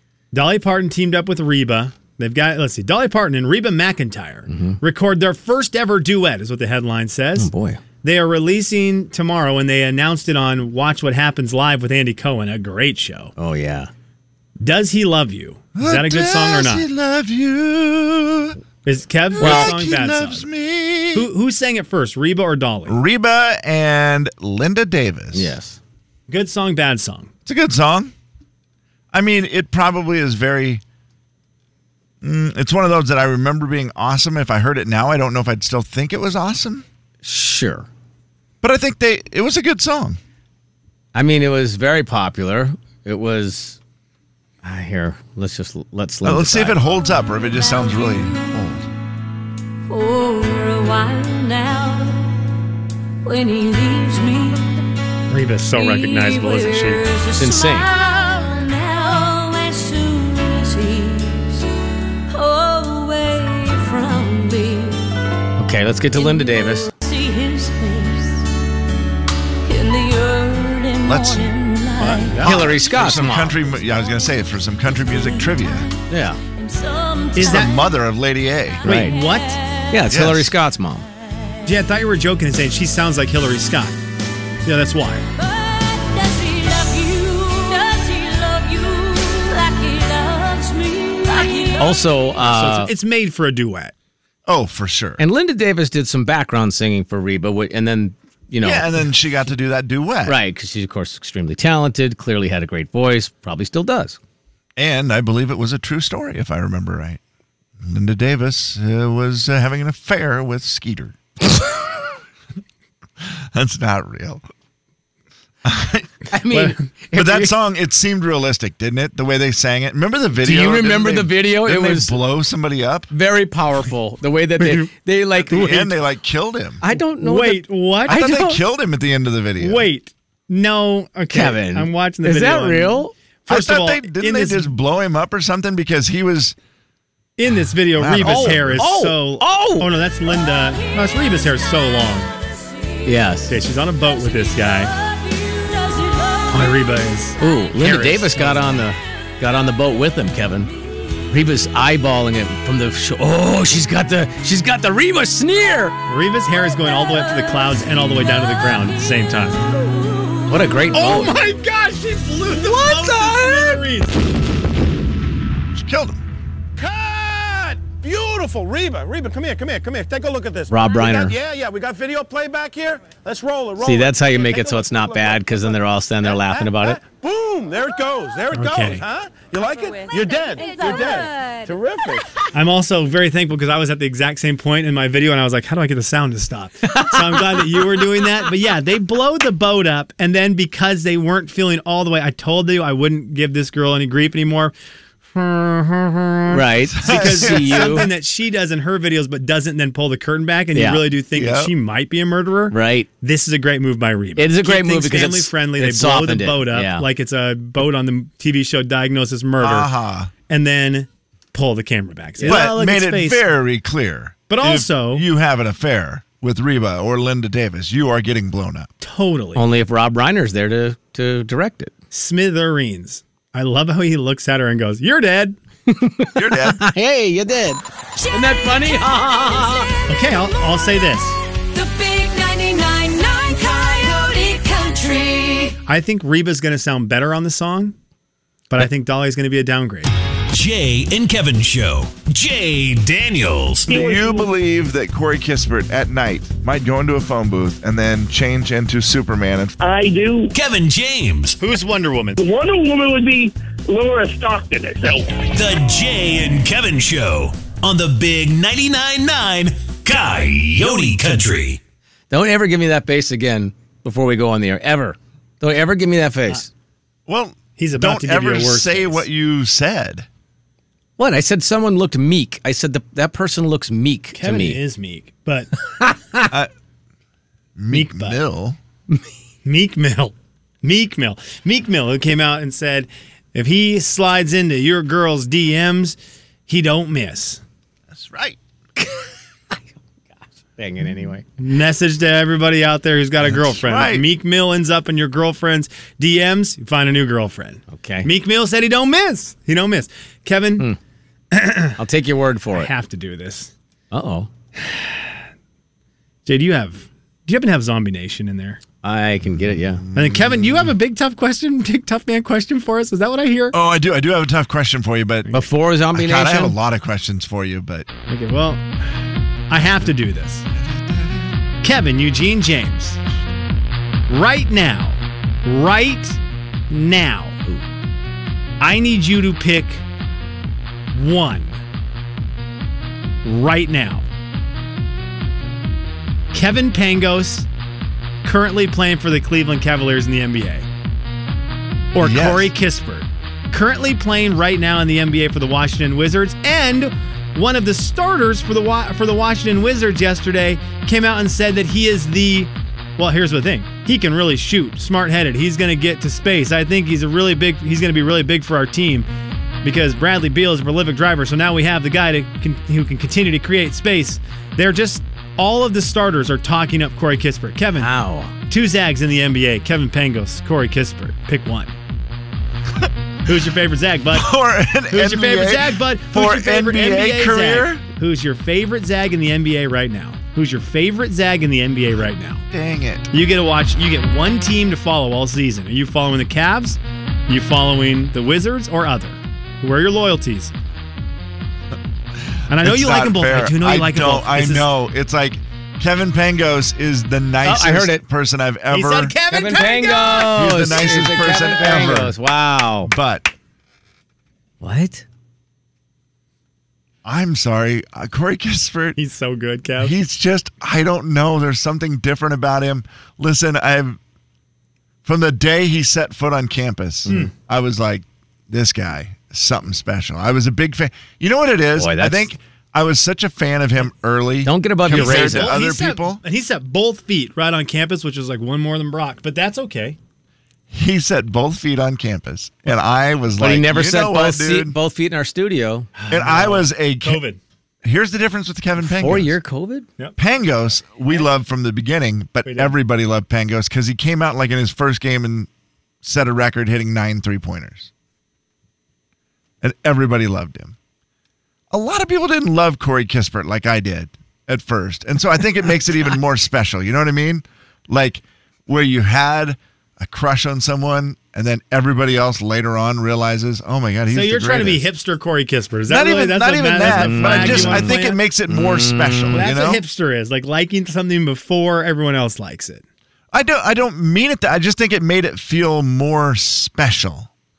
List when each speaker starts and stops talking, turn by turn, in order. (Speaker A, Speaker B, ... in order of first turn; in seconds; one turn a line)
Speaker A: 0.3-7.5
Speaker B: 4.5-4.8
Speaker B: 7.4-7.8
Speaker A: 8.0-13.3
Speaker B: 13.4-13.9
Speaker A: 14.6-16.9
Speaker C: 15.7-18.6
Speaker A: 18.8-20.4
Speaker C: 19.3-21.3
Speaker B: 19.4-19.7
Speaker A: 21.1-23.0
Speaker C: 22.9-25.5
Speaker B: 25.3-25.8
Speaker A: 26.3-27.3
Speaker C: 27.4-28.1
Speaker C: 29.1-30.8
Speaker C: 32.2-36.9
Speaker B: 37.2-37.9
Speaker C: 38.6-40.2
Speaker B: 41.1-43.8
Speaker B: 44.6-46.8
Speaker C: 46.2-48.9
Speaker D: 47.0-48.6
Speaker D: 49.9-52.3
Speaker D: 53.2-54.6
Speaker A: 55.3-57.0
Speaker D: 55.7-61.7
Speaker B: 57.4-57.9
Speaker D: 62.3-65.0
Speaker B: 65.6-66.9
Speaker D: 66.1-68.5
Speaker D: 69.7-72.5
Speaker C: 71.0-71.5
Speaker A: 72.0-72.6
Speaker B: 72.4-73.6
Speaker C: 72.4-75.9
Speaker D: 75.0-77.9
Speaker B: 76.1-76.4
Speaker A: 77.3-77.7
Speaker C: 77.4-78.8
Speaker B: 78.8-79.1
Speaker A: 78.8-79.6
Speaker D: 79.0-80.1
Speaker B: 79.9-81.1
Speaker C: 80.1-80.5
Speaker A: 81.6-84.0
Speaker A: 84.6-85.2
Speaker D: 85.4-92.1
Speaker B: 91.8-92.9
Speaker A: 92.4-93.9
Speaker C: 94.5-95.2
Speaker B: 95.2-98.9
Speaker C: 98.6-100.4
Speaker B: 100.2-104.2
Speaker C: 104.8-107.2
Speaker C: 107.8-111.2
Speaker C: 113.2-114.4
Speaker C: 115.6-116.3
Speaker B: 116.3-117.5
Speaker A: 116.5-116.8
Speaker C: 117.1-123.1
Speaker B: 120.4-122.2
Speaker B: 123.1-125.9
Speaker A: 124.6-124.9
Speaker C: 125.4-126.8
Speaker B: 126.8-128.6
Speaker A: 127.2-128.2
Speaker C: 128.1-129.9
Speaker A: 129.6-134.7
Speaker B: 131.3-133.1
Speaker C: 133.5-136.6
Speaker A: 137.4-142.3
Speaker C: 137.9-138.9
Speaker B: 138.2-139.9
Speaker B: 143.0-143.5
Speaker A: 143.5-144.9
Speaker D: 145.0-146.7
Speaker A: 146.5-148.8
Speaker B: 147.4-150.7
Speaker B: 151.3-156.0
Speaker A: 156.1-159.6
Speaker B: 160.5-161.3
Speaker A: 160.9-164.2
Speaker B: 162.5-163.8
Speaker C: 165.7-166.2
Speaker E: 166.8-182.2
Speaker B: 170.7-171.3
Speaker B: 173.8-177.0
Speaker A: 178.5-179.0
Speaker D: 180.0-181.7
Speaker A: 182.5-194.7
Speaker B: 186.9-187.7
Speaker A: 195.3-209.9
Speaker B: 196.5-198.1
Speaker C: 196.9-198.0
Speaker B: 200.7-201.0
Speaker C: 201.3-201.7
Speaker B: 202.7-203.1
Speaker B: 204.4-207.1
Speaker C: 209.6-210.3
Speaker A: 210.5-213.4
Speaker C: 212.5-218.9
Speaker A: 214.5-215.2
Speaker A: 219.0-219.6
Speaker B: 219.5-221.9
Speaker A: 222.1-225.6
Speaker B: 225.9-227.8
Speaker C: 226.3-226.8
Speaker D: 228.3-228.9
Speaker B: 228.4-229.8
Speaker D: 229.5-229.8
Speaker A: 230.1-231.4
Speaker D: 231.7-235.8
Speaker A: 235.9-237.9
Speaker A: 238.7-240.1
Speaker F: 240.5-243.9
Speaker G: 243.9-244.5
Speaker C: 243.9-249.8
Speaker G: 249.8-250.5
Speaker F: 250.5-251.6
Speaker A: 251.6-252.4
Speaker G: 252.4-255.3
Speaker F: 255.4-261.8
Speaker B: 262.3-266.7
Speaker C: 267.3-270.3
Speaker A: 267.8-269.2
Speaker B: 271.2-274.8
Speaker A: 274.3-275.7
Speaker B: 276.0-276.4
Speaker C: 277.8-278.8
Speaker A: 277.9-278.4
Speaker A: 279.6-287.6
Speaker C: 288.1-288.6
Speaker B: 289.0-289.8
Speaker B: 290.8-291.4
Speaker A: 291.6-300.9
Speaker C: 293.5-294.3
Speaker B: 297.9-298.3
Speaker A: 301.5-302.0
Speaker B: 302.0-302.9
Speaker A: 302.7-303.7
Speaker B: 304.1-304.5
Speaker A: 304.8-305.3
Speaker A: 306.4-308.8
Speaker B: 309.0-310.0
Speaker C: 310.0-310.9
Speaker A: 310.1-313.8
Speaker C: 313.7-315.5
Speaker B: 315.5-316.8
Speaker C: 316.1-318.1
Speaker A: 318.3-318.8
Speaker A: 319.7-320.6
Speaker C: 320.7-321.6
Speaker A: 321.8-323.2
Speaker A: 324.3-326.4
Speaker A: 326.9-327.6
Speaker A: 328.8-330.0
Speaker A: 331.1-331.8
Speaker A: 333.4-334.3
Speaker A: 336.5-337.7
Speaker A: 338.4-340.9
Speaker A: 342.1-359.3
Speaker C: 342.2-342.7
Speaker A: 359.8-368.1
Speaker B: 368.0-368.5
Speaker A: 368.7-371.9
Speaker A: 373.4-374.5
Speaker C: 374.3-378.0
Speaker A: 375.1-382.6
Speaker C: 382.7-383.3
Speaker A: 383.3-390.7
Speaker A: 392.7-394.9
Speaker C: 392.7-399.3
Speaker B: 397.6-398.2
Speaker A: 398.9-400.6
Speaker B: 399.5-403.1
Speaker C: 400.4-402.4
Speaker C: 403.0-403.5
Speaker B: 404.8-405.2
Speaker C: 407.2-409.2
Speaker A: 409.1-410.1
Speaker C: 410.0-414.2
Speaker C: 415.2-426.4
Speaker B: 422.0-422.5
Speaker B: 424.6-425.8
Speaker A: 425.1-430.2
Speaker C: 430.9-435.0
Speaker B: 433.6-436.1
Speaker A: 436.1-437.6
Speaker C: 436.3-437.4
Speaker C: 438.0-439.6
Speaker B: 439.0-440.1
Speaker C: 440.4-445.7
Speaker A: 442.6-442.9
Speaker C: 446.2-448.1
Speaker C: 449.8-450.9
Speaker C: 451.9-465.1
Speaker A: 464.3-468.4
Speaker C: 466.1-470.0
Speaker B: 467.0-468.2
Speaker B: 468.7-469.7
Speaker A: 469.5-473.0
Speaker C: 473.5-477.5